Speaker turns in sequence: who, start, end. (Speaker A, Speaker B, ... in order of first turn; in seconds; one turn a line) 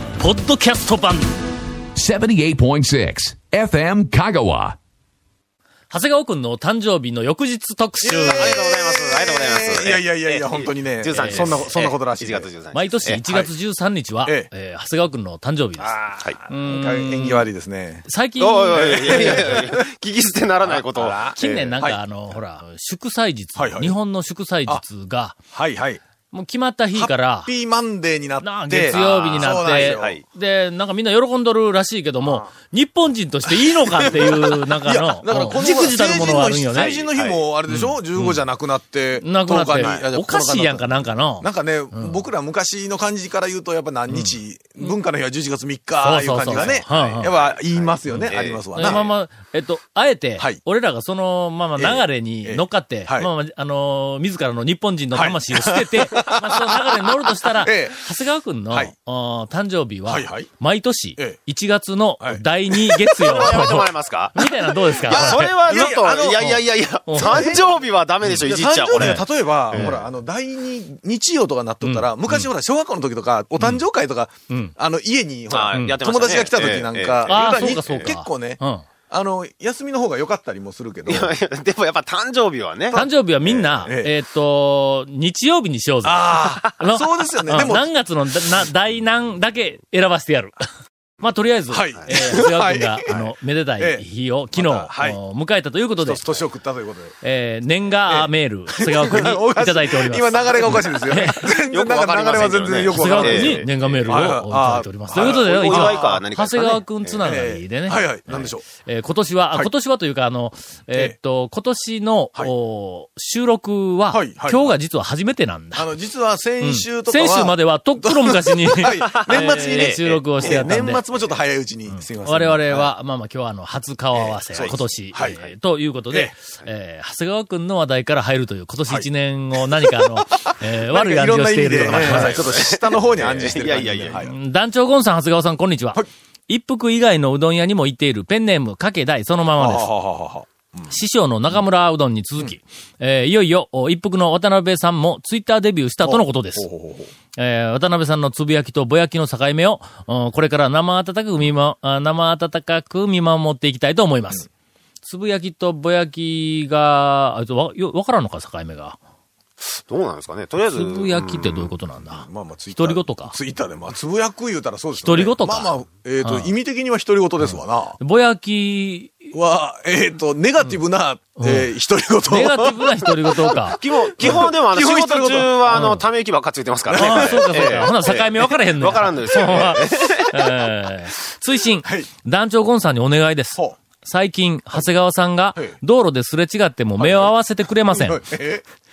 Speaker A: 0.2-1.3
Speaker B: 1.9-4.8
Speaker A: 5.9-8.6
Speaker C: 8.0-12.5
Speaker D: 8.3-13.2
Speaker A: 11.2-11.7
Speaker A: 12.7-17.5
Speaker C: 13.2-13.5
Speaker C: 14.2-14.5
Speaker C: 15.8-18.1
Speaker A: 18.1-19.6
Speaker D: 18.4-21.8
Speaker C: 18.7-19.8
Speaker C: 20.6-22.0
Speaker A: 21.3-25.4
Speaker C: 23.6-23.9
Speaker C: 25.5-26.0
Speaker A: 26.3-27.5
Speaker C: 26.9-30.2
Speaker A: 28.4-37.0
Speaker D: 28.9-30.2
Speaker C: 32.2-32.5
Speaker C: 33.9-49.0
Speaker D: 36.0-37.4
Speaker A: 37.7-38.4
Speaker A: 39.2-42.2
Speaker A: 44.1-44.9
Speaker A: 46.0-47.4
Speaker D: 46.5-49.1
Speaker A: 48.1-65.6
Speaker C: 51.8-53.3
Speaker C: 55.1-58.0
Speaker C: 60.1-60.5
Speaker C: 62.2-63.7
Speaker D: 63.2-70.1
Speaker C: 65.1-67.8
Speaker A: 67.1-67.6
Speaker A: 68.2-70.0
Speaker C: 68.4-81.3
Speaker A: 71.8-72.5
Speaker A: 74.5-74.8
Speaker D: 75.5-78.1
Speaker A: 75.7-76.0
Speaker A: 77.3-78.9
Speaker D: 81.1-83.9
Speaker A: 83.0-90.6
Speaker C: 83.8-84.1
Speaker C: 86.0-87.9
Speaker A: 91.2-96.3
Speaker C: 91.7-95.2
Speaker C: 96.0-97.2
Speaker A: 97.2-101.5
Speaker C: 98.1-106.2
Speaker D: 101.7-104.1
Speaker A: 102.7-115.9
Speaker D: 105.1-107.4
Speaker C: 107.2-108.7
Speaker C: 114.1-114.8
Speaker C: 115.8-122.9
Speaker A: 116.6-121.0
Speaker D: 118.9-120.7
Speaker A: 121.9-132.5
Speaker C: 124.1-125.4
Speaker D: 124.5-125.4
Speaker C: 128.9-134.3
Speaker D: 131.8-134.3
Speaker A: 134.2-139.9
Speaker C: 139.6-141.0
Speaker A: 140.9-146.7
Speaker C: 146.0-147.1
Speaker A: 147.4-154.5
Speaker A: 155.0-159.0
Speaker D: 159.6-161.7
Speaker A: 160.6-163.3
Speaker C: 162.1-168.0
Speaker A: 165.0-165.7
Speaker A: 166.2-166.5
Speaker A: 167.4-169.3
Speaker C: 169.3-172.8
Speaker A: 171.4-171.7
Speaker A: 172.3-174.4
Speaker D: 173.7-180.6
Speaker C: 174.2-175.9
Speaker A: 175.7-176.1
Speaker C: 176.9-177.8
Speaker A: 176.9-188.3
Speaker C: 187.0-187.3
Speaker C: 187.9-188.6